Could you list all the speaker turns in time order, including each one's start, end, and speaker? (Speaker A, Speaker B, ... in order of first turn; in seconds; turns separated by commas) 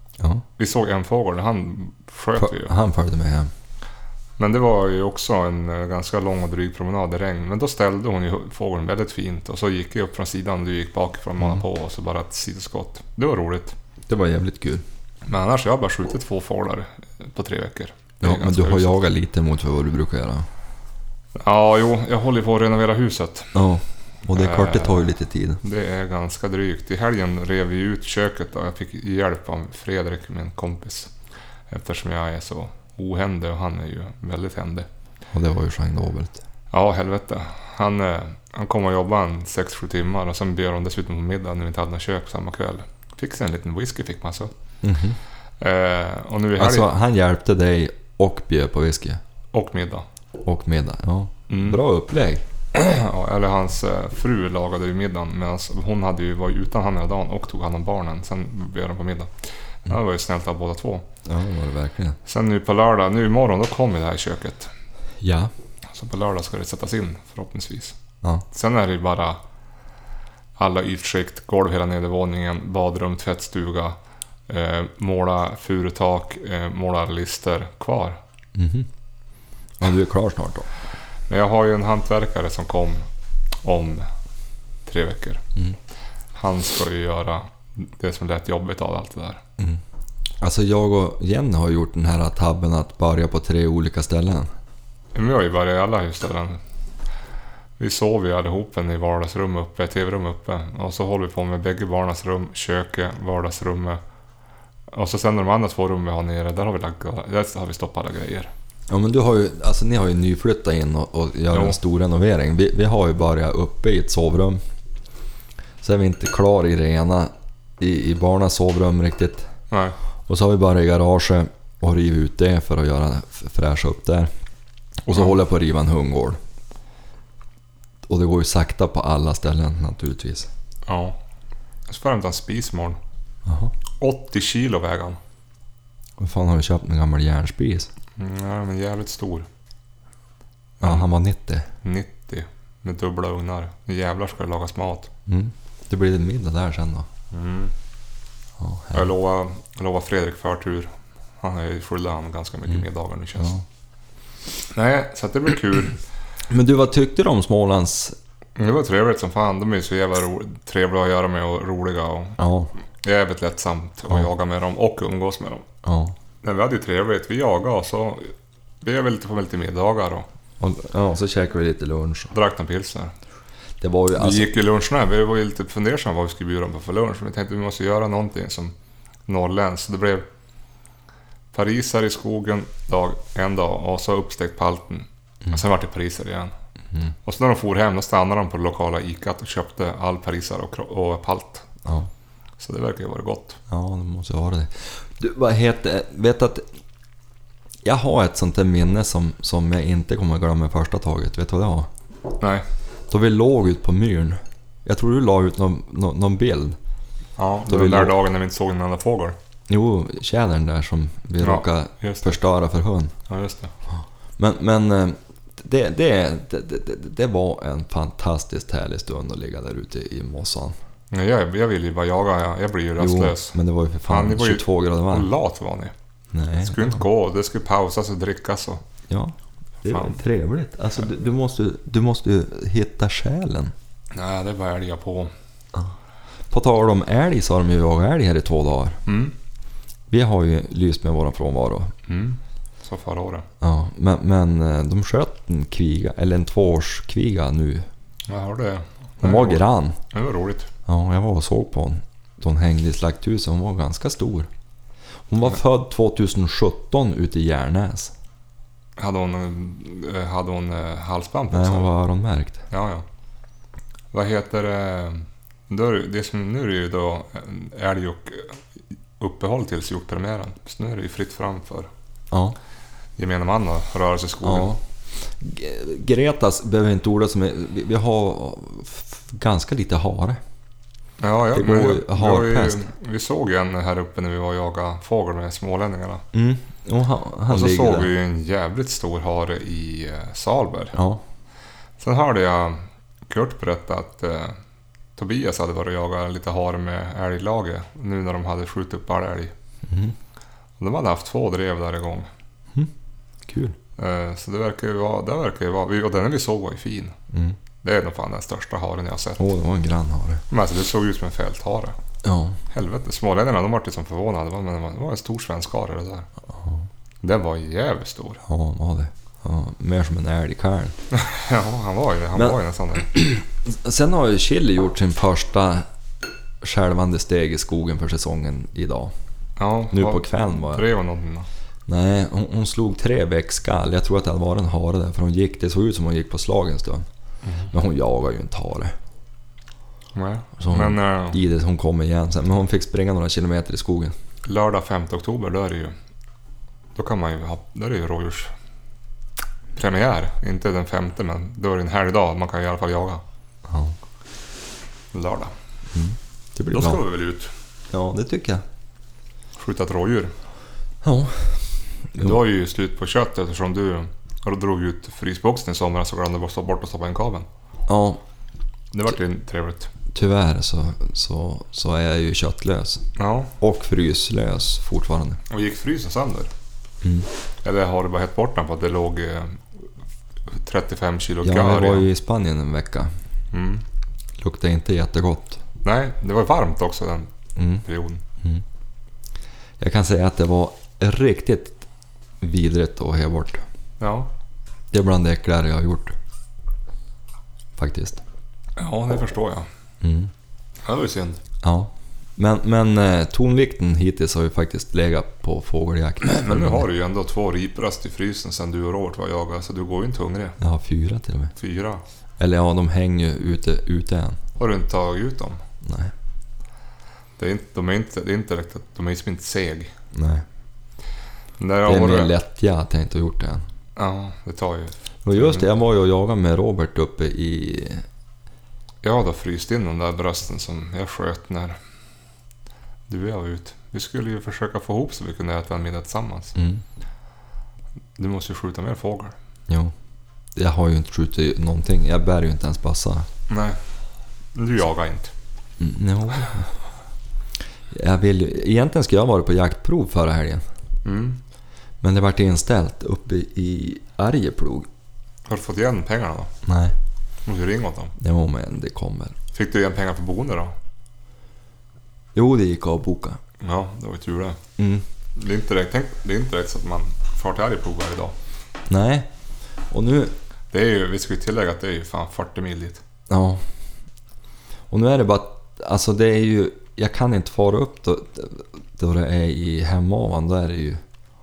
Speaker A: 0.2-0.4, Speaker B: 0.6-2.7, Speaker A: 2.4-3.5, Speaker B: 4.4-13.7, Speaker A: 14.1-14.8, Speaker B: 15.2-18.9, Speaker A: 18.2-20.5, Speaker B: 21.3-23.5, Speaker A: 23.5-25.6, Speaker B: 24.3-25.1, Speaker B: 25.6-31.1, Speaker B: 31.7-34.9, Speaker A: 35.3-36.4, Speaker B: 36.7-44.5, Speaker A: 44.8-45.2, Speaker B: 45.6-46.9, Speaker A: 46.6-49.2, Speaker B: 49.5-50.0, Speaker A: 50.4-52.4, Speaker B: 51.5-51.8, Speaker B: 52.7-61.0, Speaker A: 61.2-62.2, Speaker B: 62.2-64.7, Speaker A: 65.2-65.5, Speaker B: 65.9-68.0, Speaker B: 68.5-69.4, Speaker B: 70.6-74.0, Speaker B: 74.5-78.2, Speaker A: 78.5-78.9, Speaker A: 79.8-80.7, Speaker B: 81.3-83.0, Speaker B: 83.6-84.0, Speaker B: 84.8-85.4, Speaker B: 86.3-89.4, Speaker A: 90.4-94.5, Speaker B: 95.1-96.6, Speaker B: 97.8-104.0, Speaker B: 104.9-108.5, Speaker A: 108.9-114.6, Speaker B: 111.5-111.8, Speaker A: 115.8-119.5, Speaker B: 119.7-120.0, Speaker A: 120.3-124.3, Speaker A: 125.0-126.4, Speaker A: 128.1-130.5, Speaker B: 130.8-131.2, Speaker B: 131.9-133.0, Speaker A: 133.4-133.7, Speaker B: 134.0-135.2, Speaker A: 136.2-137.9, Speaker B: 138.2-139.5, Speaker B: 140.8-141.1, Speaker A: 140.8-141.7, Speaker B: 141.8-145.1, Speaker A: 145.2-147.1, Speaker B: 147.3-147.7, Speaker A: 148.6-149.1, Speaker B: 148.9-153.5, Speaker B: 154.7-156.0, Speaker A: 156.5-158.1, Speaker B: 158.6-162.4, Speaker A: 162.4-162.7, Speaker B: 163.0-165.7, Speaker A: 165.8-166.1, Speaker B: 166.4-170.3, Speaker A: 170.6-172.3, Speaker B: 172.3-173.1, Speaker A: 173.8-174.5, Speaker B: 174.1-178.7, Speaker B: 179.3-180.2, Speaker B: 181.5-186.5, Speaker B: 187.2-191.7, Speaker B: 192.6-193.6, Speaker A: 193.7-196.6, Speaker A: 197.8-201.9, Speaker A: 203.1-206.8, Speaker B: 207.4-209.3, Speaker A: 207.7-208.1, Speaker A: 209.7-213.1, Speaker B: 211.4-212.3, Speaker B: 213.3-213.7, Speaker A: 214.4-220.8, Speaker B: 221.1-225.9, Speaker A: 223.0-225.3, Speaker A: 226.3-227.0, Speaker B: 226.6-228.8, Speaker A: 229.1-233.7, Speaker B: 229.9-230.2, Speaker B: 234.1-235.3, Speaker A: 236.5-239.0, Speaker B: 239.1-239.3, Speaker A: 240.1-241.9, Speaker B: 242.1-243.4, Speaker A: 243.6-247.8, Speaker B: 248.3-250.7, Speaker A: 249.2-250.0, Speaker A: 250.8-254.5, Speaker A: 255.3-258.1, Speaker B: 259.0-261.9, Speaker A: 261.5-262.6, Speaker B: 262.7-263.1, Speaker B: 264.1-268.6, Speaker B: 269.2-271.9, Speaker A: 272.3-272.6, Speaker B: 273.2-274.8, Speaker A: 274.4-274.8, Speaker A: 275.4-280.4, Speaker B: 281.2-286.2, Speaker A: 281.5-282.8, Speaker A: 286.3-288.1, Speaker B: 287.5-290.9, Speaker A: 290.9-291.2, Speaker B: 292.0-294.6, Speaker B: 295.1-299.5, Speaker A: 299.9-300.1, Speaker B: 300.8-302.3, Speaker A: 303.5-303.8, Speaker B: 304.0-307.1, Speaker A: 307.3-307.6, Speaker B: 307.8-309.4, Speaker A: 309.4-310.4, Speaker B: 310.5-311.9, Speaker A: 312.2-312.6, Speaker B: 312.7-316.3, Speaker A: 316.5-316.8, Speaker B: 317.2-318.4, Speaker A: 318.4-321.0, Speaker B: 321.1-323.1, Speaker A: 323.1-325.9, Speaker A: 326.6-329.1, Speaker B: 329.6-331.5, Speaker A: 329.9-330.9, Speaker A: 331.9-337.1, Speaker B: 337.4-337.7, Speaker A: 337.7-338.9, Speaker B: 340.1-341.4, Speaker A: 340.6-344.1, Speaker B: 344.4-345.9, Speaker B: 346.9-348.5, Speaker B: 349.8-353.2, Speaker A: 353.7-353.9, Speaker B: 355.1-355.5, Speaker A: 355.9-357.0, Speaker B: 356.7-357.5, Speaker A: 357.9-358.6, Speaker B: 359.6-360.3, Speaker A: 361.0-361.6, Speaker B: 362.2-367.5, Speaker A: 367.9-368.2, Speaker B: 368.9-369.9, Speaker A: 370.1-373.0, Speaker B: 373.1-373.5, Speaker A: 373.6-375.4, Speaker B: 375.5-376.5, Speaker B: 377.6-379.6, Speaker B: 380.5-382.1, Speaker A: 381.4-383.1, Speaker B: 383.5-383.8, Speaker A: 384.4-385.6, Speaker B: 385.8-388.2, Speaker A: 387.6-387.8, Speaker A: 389.8-391.8, Speaker A: 392.4-393.6, Speaker B: 394.0-394.3, Speaker A: 394.9-396.1, Speaker A: 397.8-398.2, Speaker B: 398.8-399.7, Speaker A: 400.0-400.3, Speaker B: 400.8-401.4, Speaker A: 401.6-406.9, Speaker B: 406.2-410.6, Speaker A: 410.6-411.5, Speaker B: 411.6-412.0, Speaker A: 412.4-414.4, Speaker B: 414.6-415.6, Speaker A: 415.8-416.1, Speaker B: 417.4-419.9, Speaker A: 420.1-420.4, Speaker B: 421.6-422.3, Speaker A: 421.9-423.6, Speaker B: 423.9-425.7, Speaker A: 425.2-428.0, Speaker B: 429.0-431.8, Speaker B: 433.1-436.5, Speaker A: 436.6-436.8, Speaker B: 438.2-439.3, Speaker A: 440.6-443.3, Speaker B: 443.5-443.8, Speaker B: 444.5-445.3, Speaker A: 445.8-446.8, Speaker A: 447.9-450.6, Speaker B: 451.0-451.4, Speaker A: 452.0-454.9, Speaker B: 455.4-456.5, Speaker A: 456.6-456.9, Speaker B: 457.4-458.1, Speaker A: 458.2-459.4, Speaker B: 459.5-460.7, Speaker A: 462.3-463.4, Speaker B: 463.6-464.6, Speaker A: 464.8-465.0, Speaker B: 465.3-468.3, Speaker A: 468.9-469.3, Speaker A: 469.9-470.3, Speaker B: 470.7-473.0, Speaker A: 473.3-473.6, Speaker A: 474.9-481.0